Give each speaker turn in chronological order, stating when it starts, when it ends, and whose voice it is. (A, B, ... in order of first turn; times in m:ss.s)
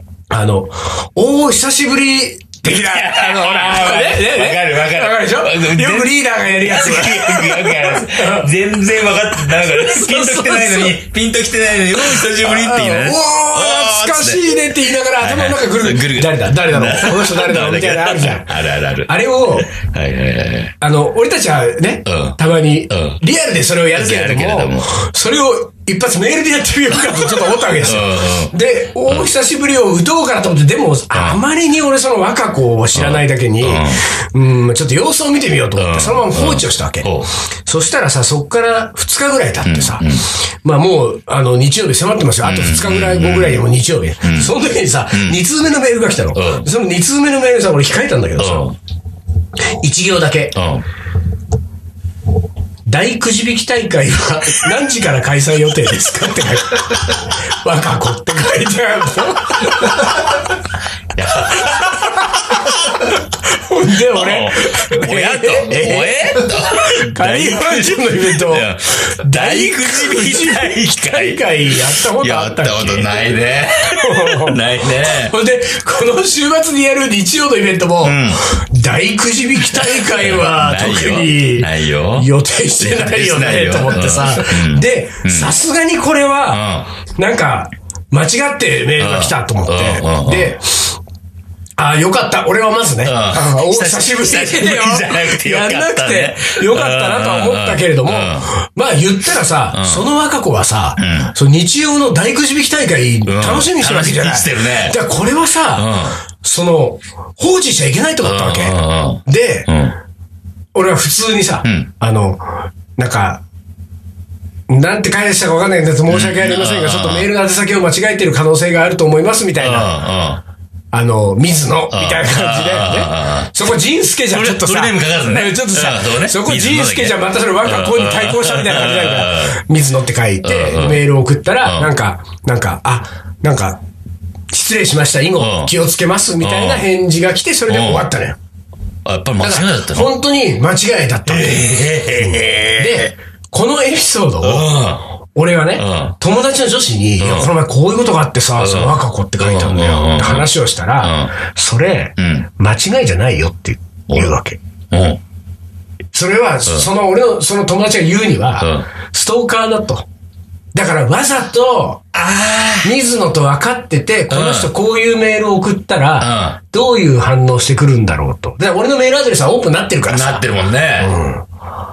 0:00.3-0:08.5 A
0:02.6-0:20.8 B
0:09.6-0:11.0 A
0:12.0-0:19.7 A
0:20.8-0:37.1 A
0:22.1-0:22.4 B
0:22.9-0:23.2 B
0:24.0-0:24.9 B
0:27.0-0:28.5 B
0:31.1-0:31.4 B
0:33.0-0:34.0 B
0:35.8-0:37.3 B
0:37.7-0:48.7 A
0:39.6-0:40.3 B
0:42.4-0:43.7 B
0:44.2-0:44.6 B
0:45.1-0:45.4 B
0:46.3-0:46.7 B
0:48.4-0:48.8 B
0:49.8-0:50.6 A
0:50.6-0:50.8 B
0:52.9-1:00.2 A
1:01.1-1:03.1 B
1:01.5-1:31.0 A
1:04.0-1:15.4 B
1:18.0-1:18.4 B
1:19.6-1:25.5 B
1:26.5-1:26.9 B
1:29.0-1:30.6 B
1:31.8-1:49.7 A
1:33.0-1:38.5 B
1:39.7-1:40.1 B
1:41.0-1:41.3 B
1:43.3-1:45.0 B
1:45.8-1:46.2 B
1:48.2-1:50.0 B
1:50.7-1:53.4 A
1:51.6-1:51.9 B
1:54.7-1:59.9 A
1:56.1-1:57.3 B
1:59.6-2:00.4 B
2:00.9-2:13.8 A
2:01.9-2:03.5 B
2:04.3-2:09.6 B
2:10.4-2:11.1 B
2:11.6-2:11.9 B
2:14.5-2:18.4 A
2:15.4-2:15.7 B
2:16.4-2:16.9 B
2:17.7-2:18.1 B
2:19.0-2:20.2 B
2:19.4-2:24.8 A
2:21.3-2:22.9 B
2:24.4-2:25.0 B
2:25.4-2:34.6 A
2:25.8-2:26.2 B
2:27.2-2:27.5 B
2:28.6-2:31.3 B
2:32.2-2:32.5 B
2:34.1-2:34.4 B
2:34.9-2:35.2 B
2:36.1-2:40.1 A
2:38.6-2:38.9 B
2:40.7-2:42.0 A
2:42.1-2:43.0 B
2:42.8-2:50.5 A
2:44.3-2:44.7 B
2:46.2-2:46.6 B
2:50.1-2:51.2 B
2:51.0-2:51.4 A